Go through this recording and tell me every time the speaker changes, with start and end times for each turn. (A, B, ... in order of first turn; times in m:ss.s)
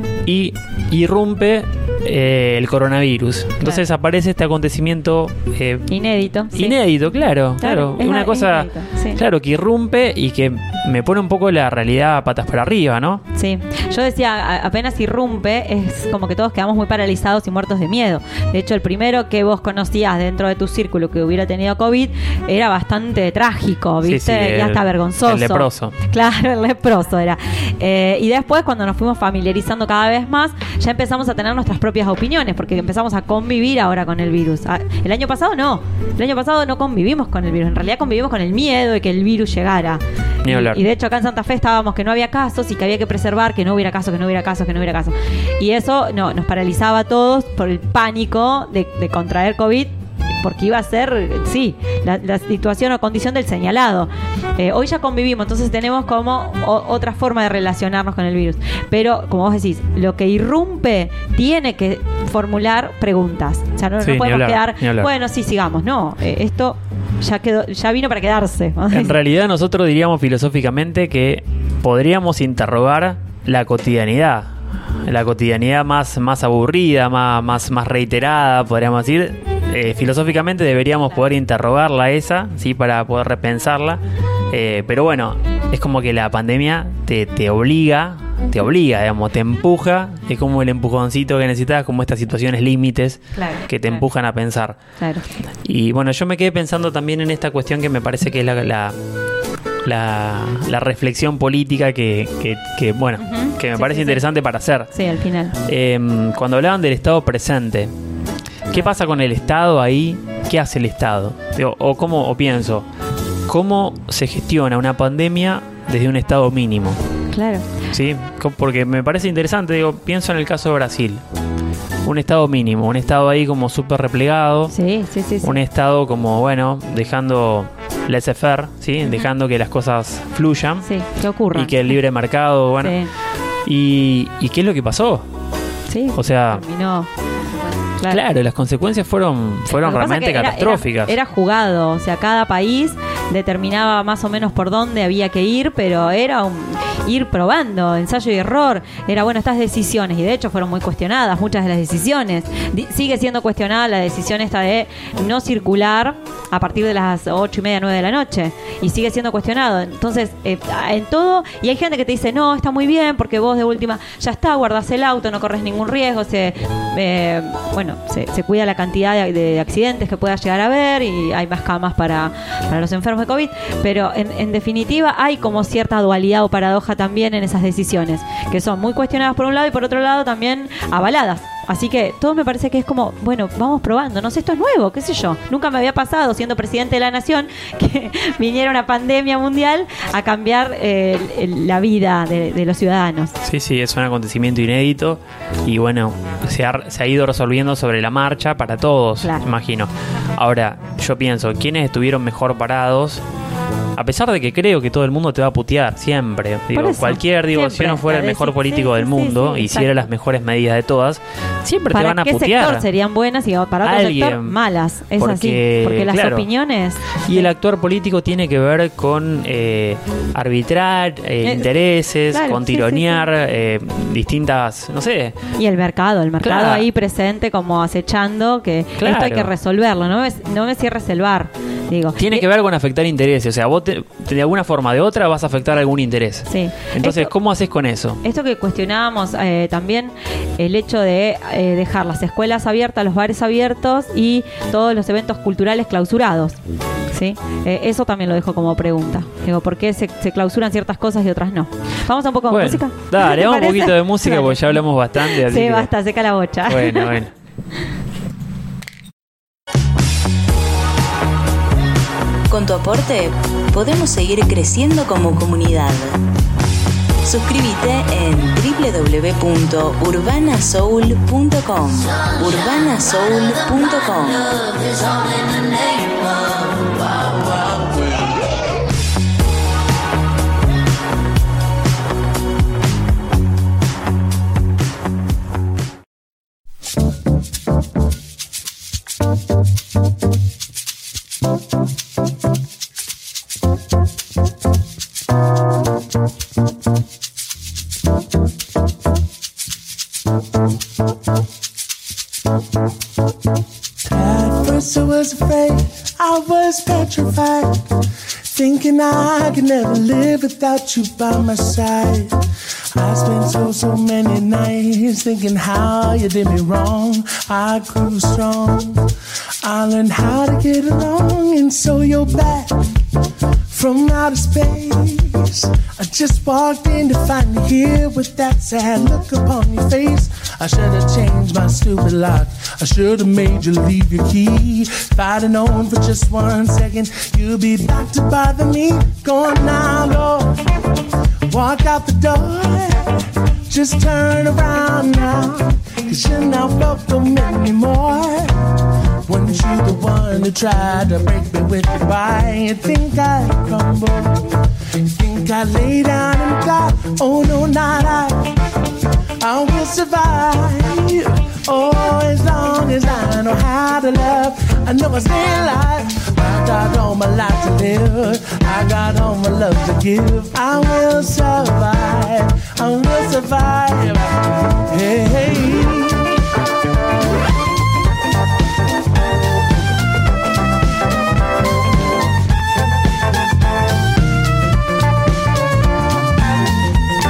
0:00.3-0:05.9 A
0:05.9-0:06.8 B
0:06.5-0:13.2 A
0:07.6-0:09.2 B
0:13.4-1:09.1 B
0:24.0-0:26.0 A
0:40.4-0:40.8 A
1:04.0-1:05.1 A
1:08.9-1:14.5 A
1:15.0-1:24.0 A
1:24.5-1:34.8 A
1:33.4-1:34.1 B
1:35.0-1:35.3 B
1:35.6-1:39.0 A
1:39.9-1:44.9 A
1:43.2-1:44.2 B
1:44.9-1:45.6 B
1:45.7-1:47.9 A
1:48.7-1:52.9 A
1:53.5-1:57.0 A
1:57.3-1:57.7 B
1:57.9-2:01.2 A
2:02.0-2:04.7 A
2:04.7-2:05.6 B
2:05.4-2:10.9 A
2:10.8-2:11.9 B
2:11.5-2:13.0 A
2:12.8-2:13.1 B
2:13.7-2:15.2 A
2:15.9-2:17.1 B
2:16.2-2:16.6 A
2:18.1-2:21.1 A
2:19.7-3:13.3 B
3:13.4-3:23.2 A
3:24.0-3:32.8 A
3:26.7-3:29.9 B
3:31.9-3:37.5 B
3:33.8-3:34.6 A
3:35.2-3:36.5 A
3:37.3-3:45.4 A
3:42.3-3:43.3 B
3:45.6-3:52.4 B
3:46.4-3:46.8 A
3:49.0-3:49.5 A
3:52.2-3:58.2 A
3:56.5-3:57.3 B
3:58.2-4:06.6 B
4:07.1-4:17.1 B
4:12.5-4:15.9 A
4:16.7-4:17.3 A
4:22.5-4:26.2 C
4:27.2-4:34.6 C
5:04.0-5:07.8 D
5:08.5-5:12.4 D
5:13.0-5:19.0 D
5:19.6-5:22.8 D
5:23.7-5:40.6 D
5:41.5-5:43.1 D
5:43.7-5:48.5 D
5:49.3-5:54.5 D
5:55.0-5:58.5 D
5:59.4-6:14.4 D
6:14.9-6:16.3 D